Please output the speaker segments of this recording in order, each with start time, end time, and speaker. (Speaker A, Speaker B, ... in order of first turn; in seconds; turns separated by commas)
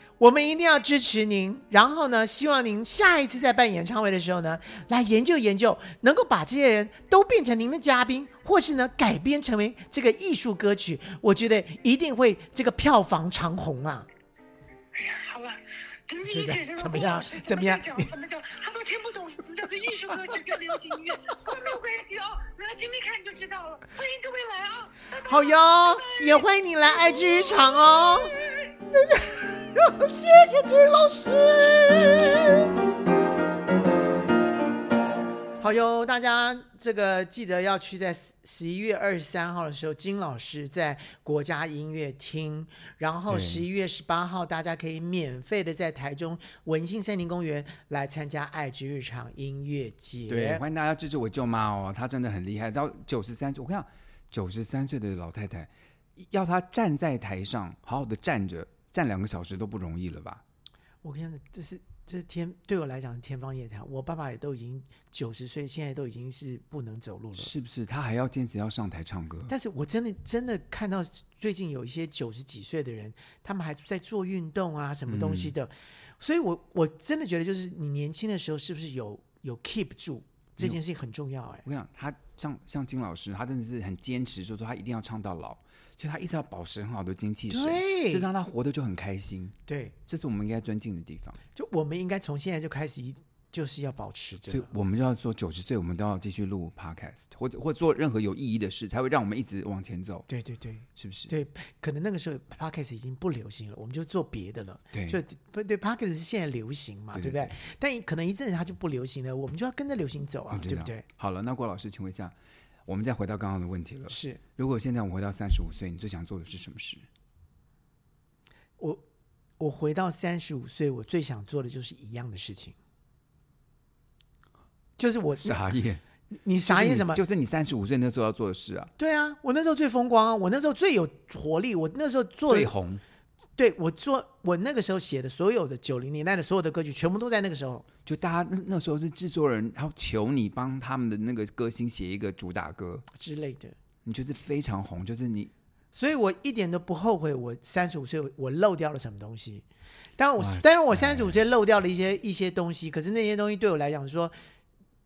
Speaker A: 0.2-14.1, Speaker B: 14.9-28.7, Speaker A: 16.2-18.1, Speaker A: 25.3-28.4, Speaker A: 28.9-32.7, Speaker A: 35.6-50.6, Speaker C: 43.3-43.7, Speaker C: 50.3-60.4, Speaker A: 61.0-67.5, Speaker C: 67.4-69.5, Speaker A: 69.5-81.6, Speaker C: 75.1-75.5, Speaker C: 81.7-89.5, Speaker A: 87.5-88.3, Speaker A: 89.7-90.0, Speaker C: 90.1-91.4, Speaker A: 91.5-94.7, Speaker C: 94.5-100.3, Speaker A: 100.3-111.0, Speaker C: 101.0-101.3, Speaker C: 104.9-105.2, Speaker C: 107.1-107.5, Speaker C: 110.5-112.3, Speaker C: 112.9-117.1, Speaker A: 114.1-114.4, Speaker A: 119.6-122.8, Speaker A: 125.0-125.6, Speaker C: 125.4-126.0, Speaker A: 126.3-127.2, Speaker C: 126.6-128.9, Speaker A: 129.0-132.7, Speaker C: 132.5-133.0, Speaker A: 133.6-137.9, Speaker C: 138.1-143.1, Speaker A: 143.1-143.8, Speaker C: 144.1-145.5, Speaker A: 145.9-149.7, Speaker A: 150.2-154.3, Speaker C: 150.4-151.4